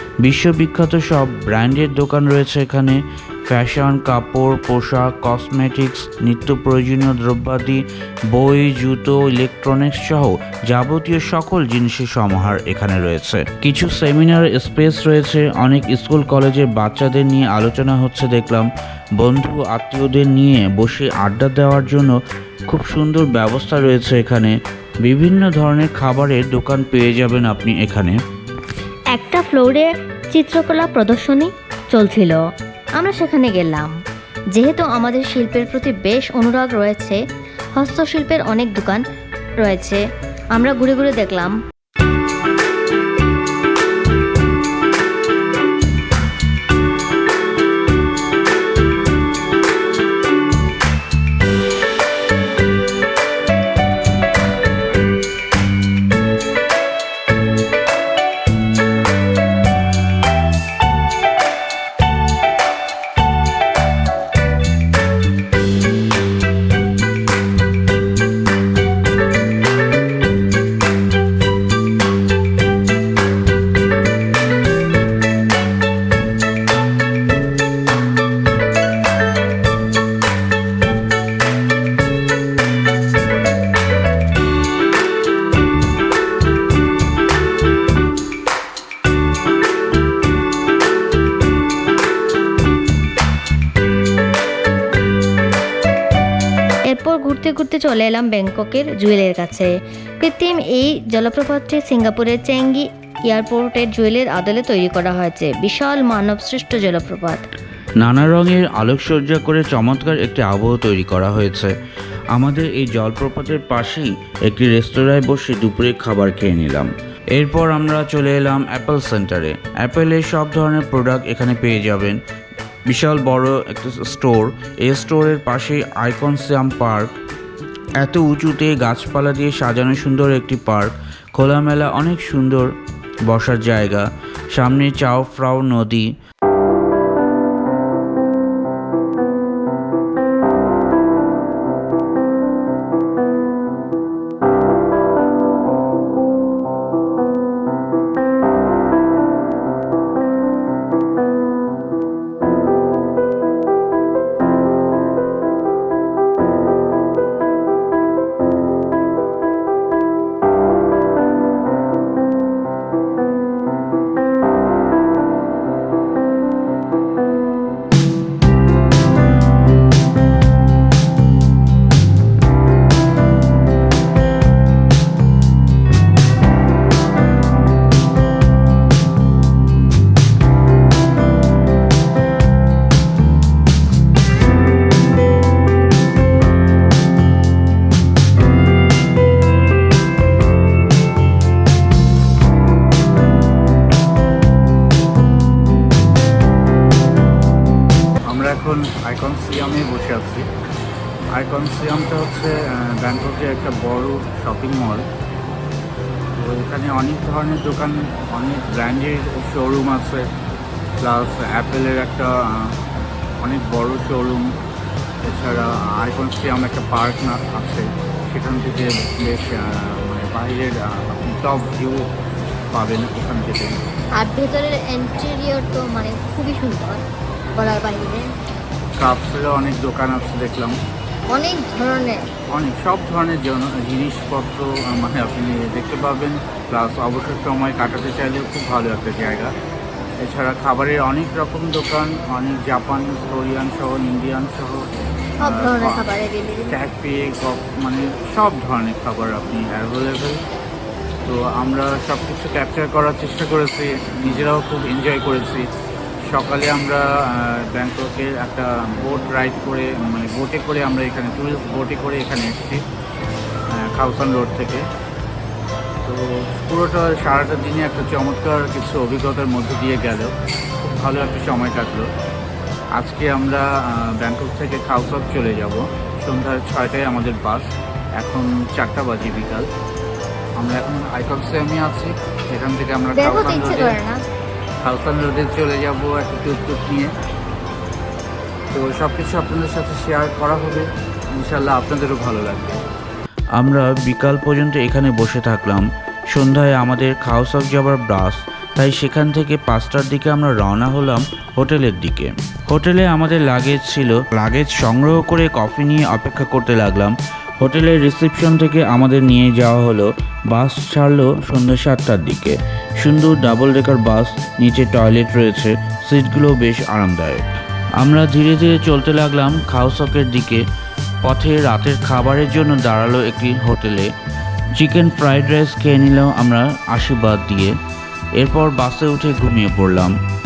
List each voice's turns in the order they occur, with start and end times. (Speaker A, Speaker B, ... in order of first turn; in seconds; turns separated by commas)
Speaker A: 0.2-22.2, Speaker A: 22.7-28.2, Speaker B: 29.1-32.4, Speaker B: 33.0-33.9, Speaker B: 34.5-37.2, Speaker B: 37.8-39.0, Speaker B: 39.6-40.0, Speaker B: 40.5-41.6, Speaker B: 96.9-107.4, Speaker A: 108.0-111.7, Speaker A: 112.3-122.2, Speaker A: 122.9-127.1, Speaker A: 128.0-132.7, Speaker A: 133.3-136.1, Speaker C: 198.3-200.5, Speaker C: 201.3-205.0, Speaker C: 206.4-210.2, Speaker C: 211.0-212.8, Speaker C: 213.4-214.5, Speaker C: 215.2-222.1, Speaker C: 222.7-223.8, Speaker B: 224.2-227.0, Speaker B: 227.6-228.3, Speaker C: 229.0-230.8, Speaker B: 231.3-232.3, Speaker C: 232.5-239.5, Speaker C: 240.2-246.1, Speaker B: 245.4-246.8, Speaker C: 246.7-250.4, Speaker C: 251.2-255.7, Speaker C: 256.2-262.8, Speaker C: 263.7-264.9, Speaker C: 266.1-272.1, Speaker C: 273.0-279.7, Speaker C: 280.6-284.0, Speaker B: 283.1-284.2, Speaker C: 284.8-287.1, Speaker C: 288.7-292.8, Speaker A: 293.6-317.4, Speaker A: 318.0-320.6, Speaker A: 321.2-324.1, Speaker A: 324.8-327.7, Speaker A: 328.4-330.1